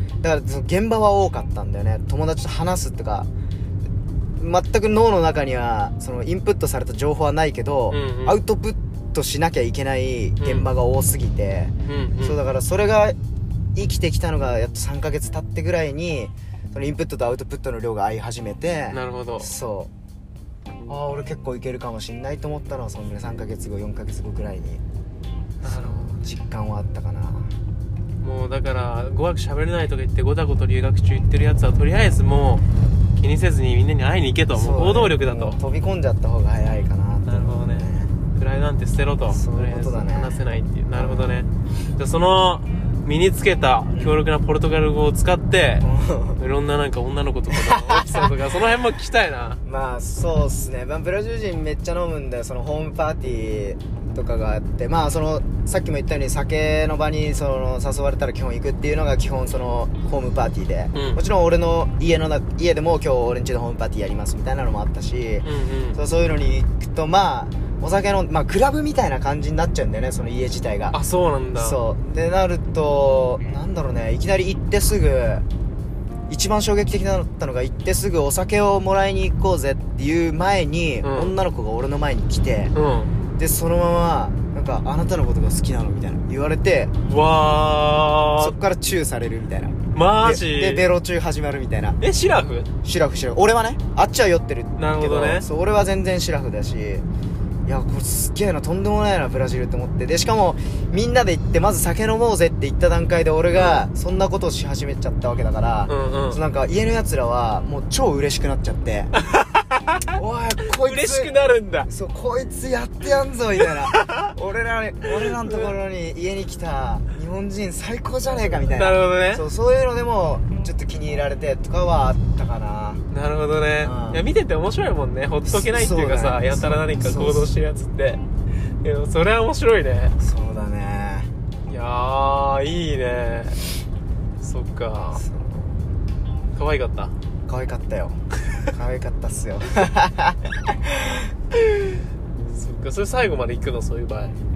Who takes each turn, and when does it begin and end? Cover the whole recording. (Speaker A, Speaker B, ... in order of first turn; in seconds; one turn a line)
Speaker A: 0.2-3.3
Speaker A: 4.4-13.2
Speaker B: 7.9-8.4
Speaker B: 10.4-10.7
Speaker B: 11.9-12.4
Speaker A: 13.8-19.9
Speaker B: 18.9-19.6
Speaker A: 20.9-24.8
Speaker B: 25.6-26.3
Speaker A: 25.6-27.5
Speaker B: 28.2-32.6
Speaker B: 33.2-35.6
Speaker A: 34.5-38.1
Speaker B: 37.3-49.6
Speaker A: 39.3-40.4
Speaker A: 41.0-41.4
Speaker A: 43.9-44.2
Speaker A: 45.8-46.4
Speaker A: 47.5-48.4
Speaker A: 49.6-71.0
Speaker B: 60.9-61.2
Speaker B: 65.4-66.0
Speaker B: 70.9-71.8
Speaker A: 71.6-75.5
Speaker A: 76.3-82.7
Speaker B: 81.0-81.4
Speaker B: 82.8-83.1
Speaker A: 83.4-87.0
Speaker B: 87.1-88.5
Speaker A: 88.4-92.0
Speaker B: 89.9-90.9
Speaker B: 92.0-92.7
Speaker A: 92.8-97.0
Speaker B: 94.8-95.5
Speaker A: 97.7-109.1
Speaker B: 103.5-103.9
Speaker B: 105.9-106.4
Speaker B: 109.1-110.1
Speaker A: 110.1-111.3
Speaker B: 110.6-111.9
Speaker A: 111.9-123.0
Speaker B: 113.6-114.3
Speaker B: 115.2-115.7
Speaker B: 118.5-119.5
Speaker B: 123.1-128.2
Speaker A: 123.8-124.2
Speaker A: 125.5-127.5
Speaker B: 128.8-130.2
Speaker A: 130.2-131.3
Speaker B: 131.7-133.6
Speaker B: 134.4-135.2
Speaker A: 135.1-135.8
Speaker B: 136.5-137.1
Speaker A: 137.5-141.3
Speaker B: 142.5-144.3